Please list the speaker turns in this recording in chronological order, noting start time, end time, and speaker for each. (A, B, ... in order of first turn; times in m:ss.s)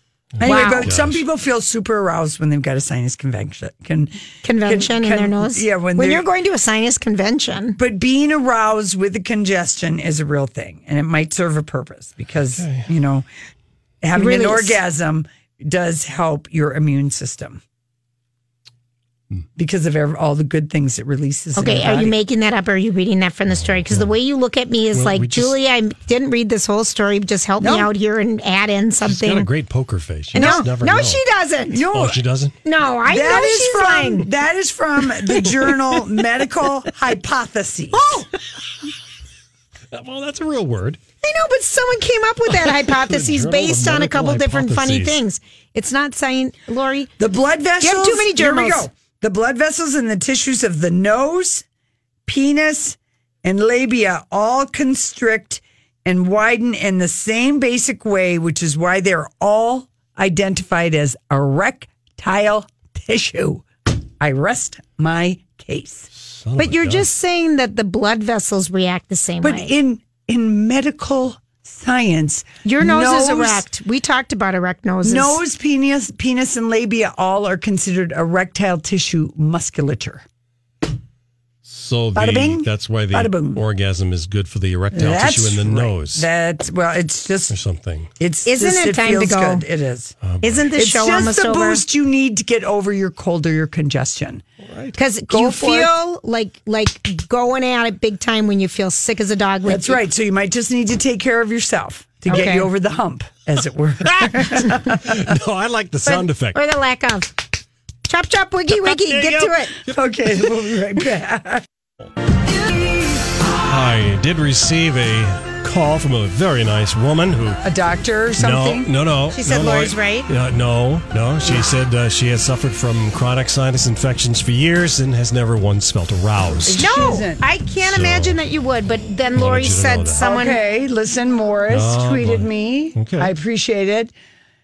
0:00.4-0:01.2 A
0:00.4-0:06.3 B
0:00.4-0:00.9 C
0:04.4-0:07.8 C
0:07.8-0:13.3 B
0:12.6-0:12.9 A
0:14.0-0:17.6 B
0:14.2-0:14.8 C
0:19.6-0:22.2 B
0:21.6-0:29.5 C
0:23.5-0:24.2 A
0:24.9-0:25.6 A
0:27.6-0:27.9 B
0:29.1-0:31.2 A
0:30.3-0:30.6 B
0:30.3-0:31.8 C
0:31.7-0:32.2 B
0:31.9-0:32.6 A
0:32.6-0:34.3 C
0:33.1-0:38.2 B
0:37.9-0:38.3 C
0:39.9-0:41.0 A
0:41.2-0:47.1 C
0:42.6-0:45.2 A
0:47.2-0:51.6 B
0:47.8-0:48.9 C
0:52.3-1:03.6 B
1:04.2-1:06.1 B
1:06.2-1:07.0 A
1:06.6-1:09.7 C
1:09.4-1:13.7 B
1:12.6-1:15.4 C
1:15.0-1:20.2 B
1:21.6-1:26.2 A
1:22.2-1:23.6 B
1:24.9-1:27.6 B
1:27.5-1:28.1 A
1:28.2-1:30.2 B
1:28.5-1:29.6 C
1:30.2-1:30.7 A
1:30.4-1:31.8 C
1:30.8-1:34.5 B
1:34.6-1:35.0 A
1:35.0-1:40.0 C
1:35.3-1:35.9 B
1:39.6-1:45.3 B
1:42.3-1:42.7 C
1:44.4-1:44.9 C
1:45.0-1:46.6 A
1:46.0-1:47.5 C
1:48.1-1:49.7 C
1:48.7-1:49.9 A
1:49.9-1:51.6 B
1:53.4-1:57.6 A
1:57.6-1:58.9 B
1:58.4-2:06.8 A
1:59.3-2:00.3 C
2:06.6-2:07.4 B
2:06.8-2:10.6 C
2:07.8-2:08.4 A
2:09.4-2:10.2 A
2:10.2-2:14.1 B
2:11.7-2:13.3 A